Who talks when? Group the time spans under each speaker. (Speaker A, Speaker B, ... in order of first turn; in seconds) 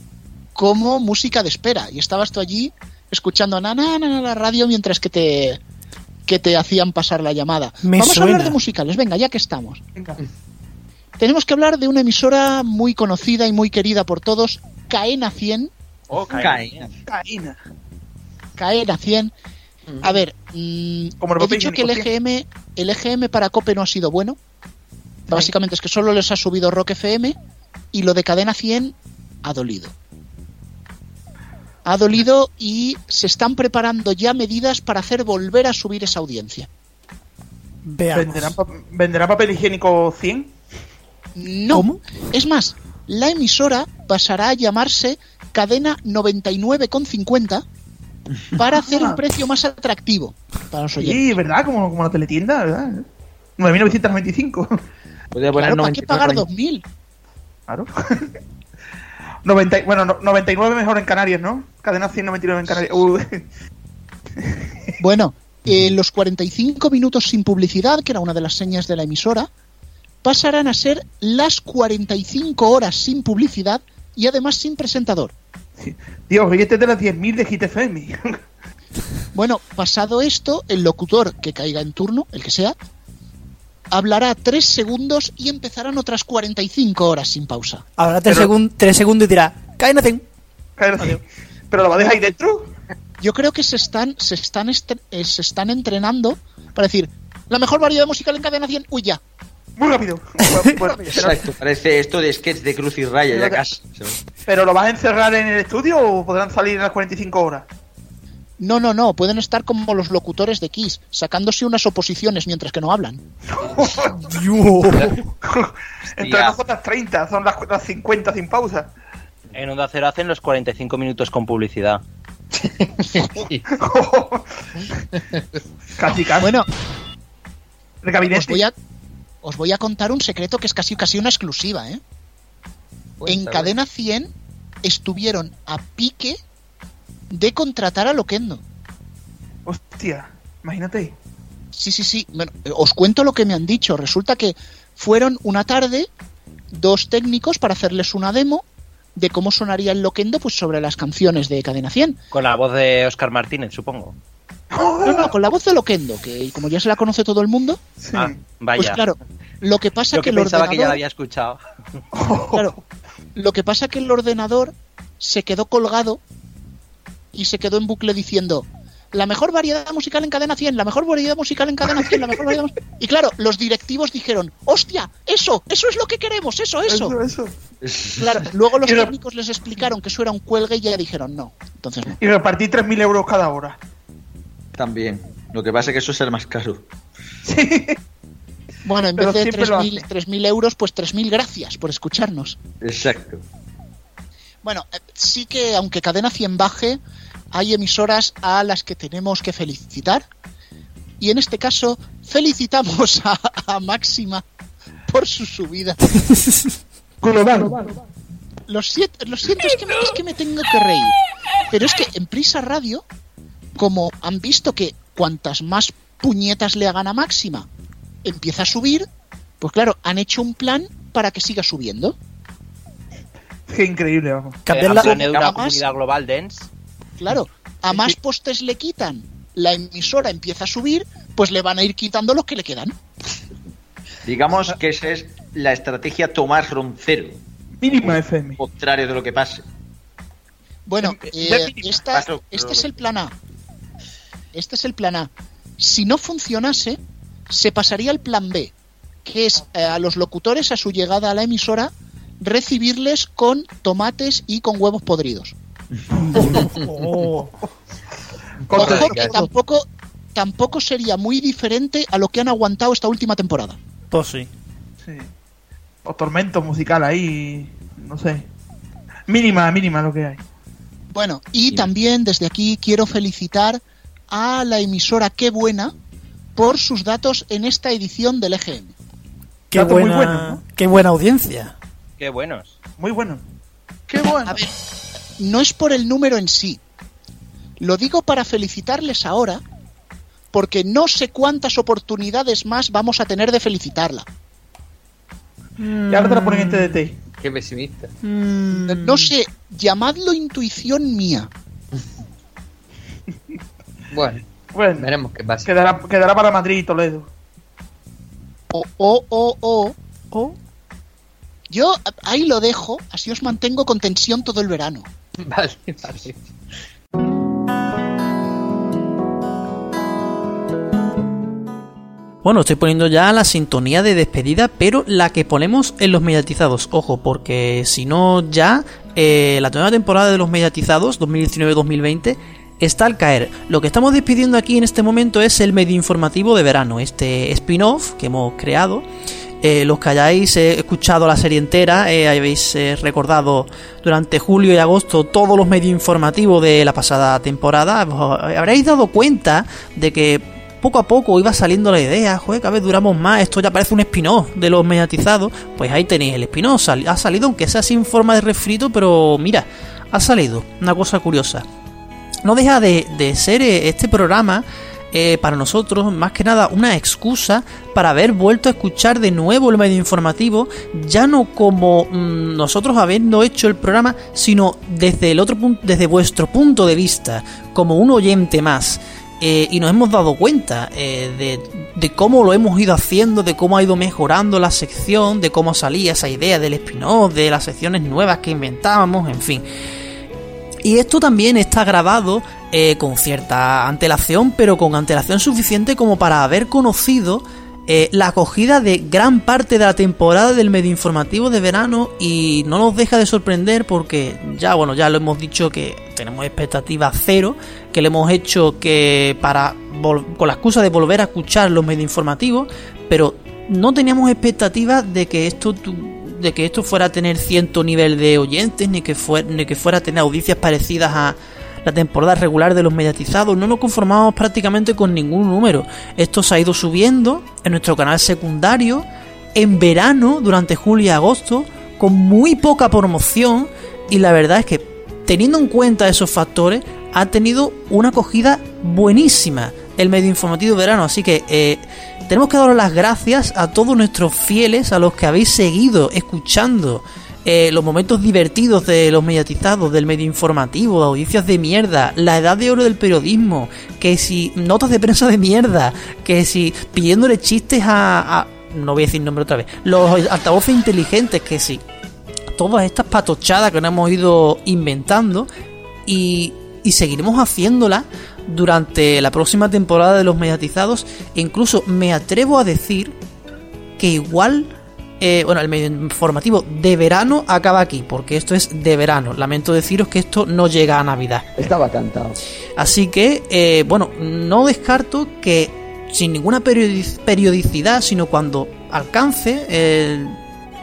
Speaker A: 0.6-5.6, 6.3-9.8, 11.2-15.7, 18.6-19.3, 20.0-24.4, 25.3-27.4, 27.9-29.9, 31.9-36.7, 41.4-47.6, 48.5-51.4, 55.5-56.9, 65.0-69.5, 70.2-75.3, 79.3-82.8, 83.9-87.8, 93.2-99.2, 108.6-113.2, 126.4-126.7, 128.3-128.7, 129.4-132.0, 133.3-134.3, 134.8-136.4, 137.3-138.6, 141.7-146.1, 146.7-148.7, 149.2-152.2, 155.1-157.8, 158.8-161.0, 162.5-162.8, 163.4-166.2, 167.3-177.2, 178.1-182.2, 188.8-192.6, 194.6-197.0, 197.5-200.3, 201.2-204.4, 205.1-206.2, 208.7-211.2, 211.7-213.1, 213.8-217.7, 218.2-219.1, 219.6-222.2, 224.9-225.8, 227.2-233.0, 240.9-243.3, 244.5-248.7, 249.2-255.6, 258.7-263.8, 271.1-275.9, 276.6-278.9, 284.4-284.7, 285.4-286.8, 287.8-289.6, 290.5-294.3, 298.7-301.5, 308.7-310.0, 311.7-315.1
Speaker B: 7.8-8.6, 37.9-38.6, 41.7-42.0, 88.0-90.2, 114.3-115.1, 224.7-225.2, 256.4-257.5, 264.1-264.5, 279.7-281.8, 295.8-297.0, 298.2-299.3, 322.4-339.1, 339.6-361.6, 362.4-389.6, 390.8-461.8, 462.6-465.5, 466.1-473.1, 474.0-481.5, 482.8-490.4
Speaker C: 16.1-16.9, 55.6-56.3, 119.5-122.0, 152.3-154.2, 158.2-159.0, 160.1-161.6, 224.7-226.7, 282.2-282.8, 284.1-284.5
Speaker D: 16.3-16.9, 55.3-56.3, 100.8-104.2, 116.2-116.6, 177.8-178.4, 184.7-186.9, 192.8-193.4, 234.3-237.4, 238.0-239.6, 242.1-242.9, 481.6-482.4
Speaker E: 17.1-17.6, 21.2-22.1, 38.1-40.5, 48.8-49.2, 51.0-53.1, 53.6-54.7, 57.7-58.3, 59.5-63.4, 64.4-64.7, 75.8-78.4, 88.3-88.5, 90.8-92.7, 99.8-101.4, 103.3-103.6, 104.5-107.7, 113.5-118.9, 123.8-124.5, 126.0-126.5, 128.0-128.6, 139.7-141.2, 154.7-155.3, 158.0-158.4, 162.1-162.7, 176.9-177.5, 178.8-179.1, 182.2-183.8, 187.4-188.0, 189.2-190.1, 207.2-207.9, 223.7-224.7, 237.8-238.6, 241.2-241.8, 256.3-257.4, 258.7-259.4, 266.1-268.5, 269.3-270.4, 279.7-280.6, 283.0-283.4, 296.1-297.1, 304.7-305.1, 305.6-307.3
Speaker F: 122.6-123.7, 125.1-125.6, 133.2-133.7, 258.7-259.4, 297.4-298.1, 304.1-305.7, 315.4-316.4